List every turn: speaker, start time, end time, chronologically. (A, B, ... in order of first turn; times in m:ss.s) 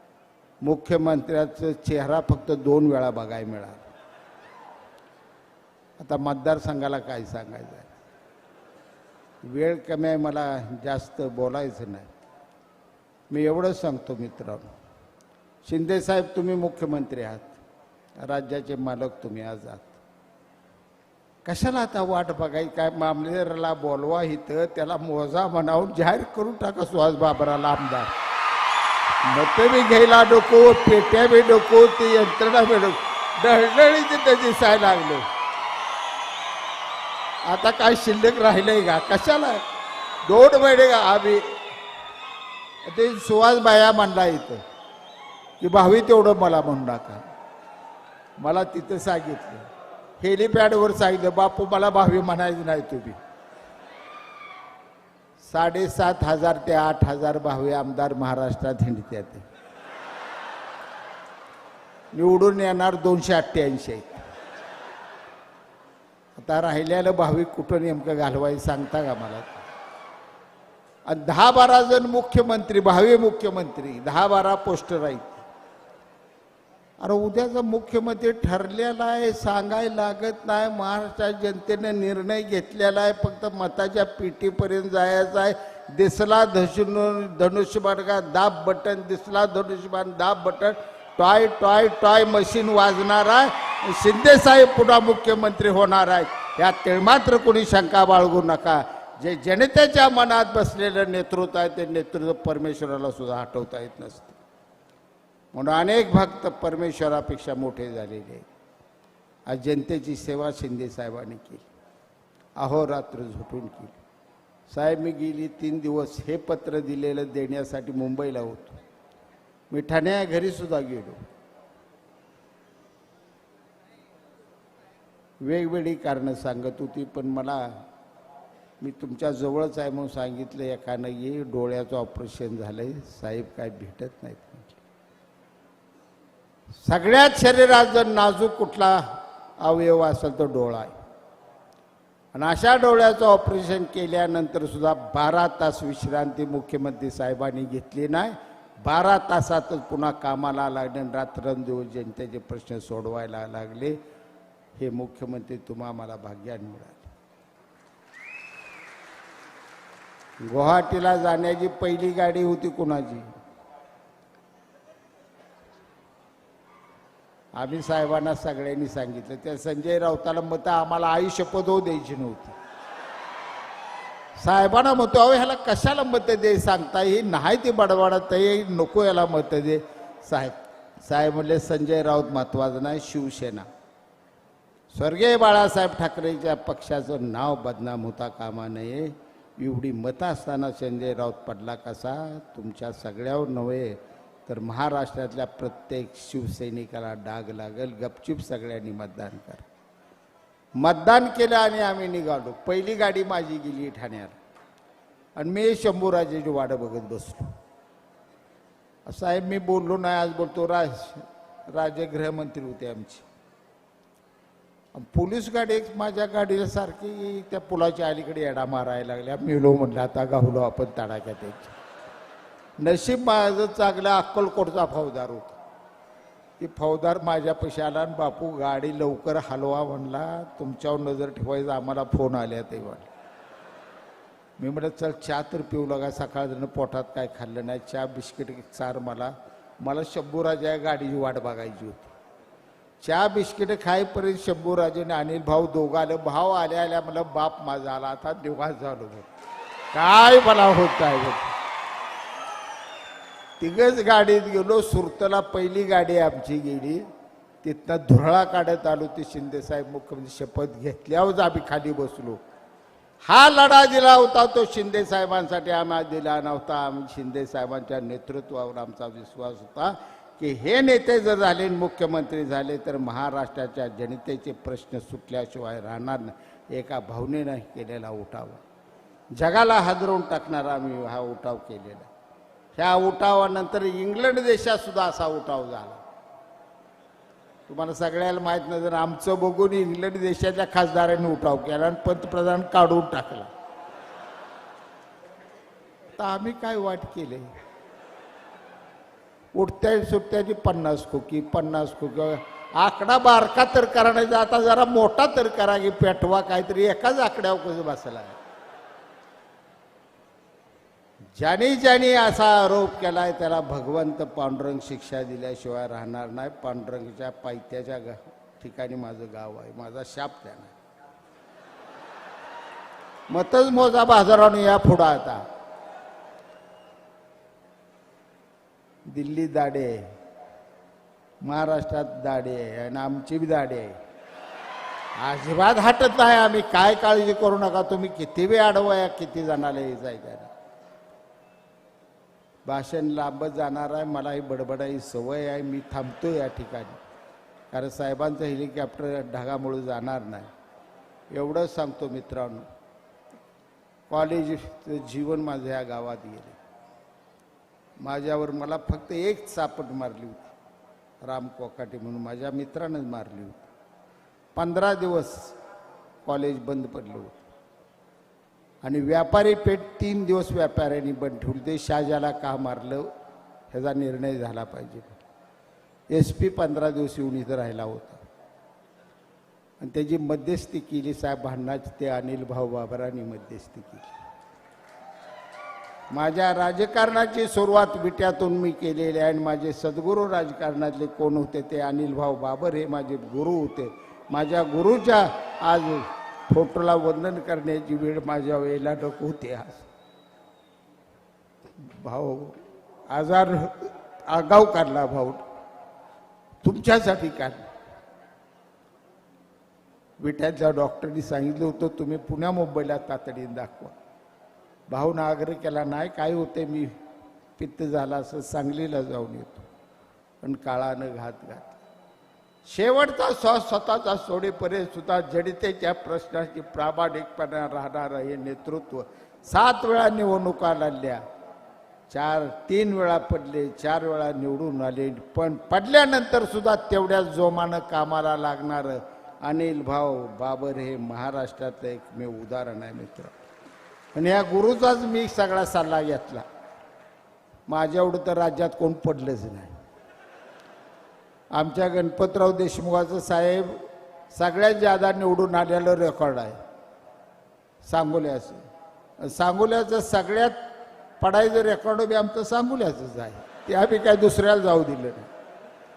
0:00.6-0:03.9 A
0:06.0-0:07.9 A
0:09.4-0:12.1 A
0:13.3-0:14.7 A
0:15.6-0:17.6 A
0:18.2-0:20.0 A
0:21.4-0:28.1 A
0:29.2-0:35.2 A
0:37.5-0:39.6 A
0:40.3-0:41.5 A
0:42.8-0:44.6 A
0:45.6-0:47.3 A
0:48.4-0:49.7 A
0:50.2-0:53.2 A
0:55.4-0:59.4 A
1:02.1-1:04.2 A
1:06.4-1:09.6 A
1:11.1-1:15.4 A
1:17.0-1:44.4 A
1:45.5-1:48.5 A
1:49.5-1:51.7 A
1:52.6-1:54.0 A
1:54.7-1:58.8 A
1:59.7-2:01.2 A
2:05.4-2:07.8 A
2:08.8-2:14.8 A
2:16.8-2:20.9 A
2:22.3-2:34.0 A
2:34.8-2:37.1 A
2:40.4-2:43.3 A
2:47.6-2:52.6 A
2:54.4-3:03.7 A
3:04.9-3:19.6 A
3:20.8-3:24.4 A
3:25.4-3:27.5 A
3:29.1-3:33.2 A
3:34.9-3:41.8 A
3:42.8-3:45.5 A
3:46.6-3:53.1 A
3:54.6-4:02.1 A
4:03.0-4:09.3 A
4:09.9-4:11.5 A
4:13.6-4:17.0 A
4:17.6-4:22.4 A
4:23.2-4:38.6 A
4:39.3-4:42.1 A
4:42.8-4:46.0 A
4:47.7-4:53.5 A
4:56.2-4:57.5 A
4:59.6-5:08.4 A
5:11.4-5:20.7 A
5:23.3-5:25.4 A
5:29.1-5:30.1 A
5:31.4-5:34.0 A
5:35.2-5:40.5 A
5:42.7-5:47.0 A
5:47.7-5:50.5 A
5:51.3-5:52.7 A
5:54.1-5:56.6 A
5:58.0-6:00.5 A
6:01.2-6:03.6 A
6:04.6-6:05.6 A
6:06.2-6:07.4 A
6:08.8-6:13.1 A
6:13.7-6:15.2 A
6:16.1-6:18.2 A
6:19.8-6:24.1 A
6:26.1-6:39.9 A
6:41.8-6:42.6 A
6:43.1-6:45.4 A
6:46.6-6:47.7 A
6:50.2-6:54.0 A
6:54.9-6:56.9 A
6:57.6-6:59.6 A
7:00.4-7:01.8 A
7:02.7-7:11.2 A
7:12.1-7:23.3 A
7:24.1-7:26.5 A
7:27.7-7:29.7 A
7:31.5-7:36.6 A
7:37.8-7:38.6 A
7:39.2-7:40.6 A
7:41.2-7:45.3 A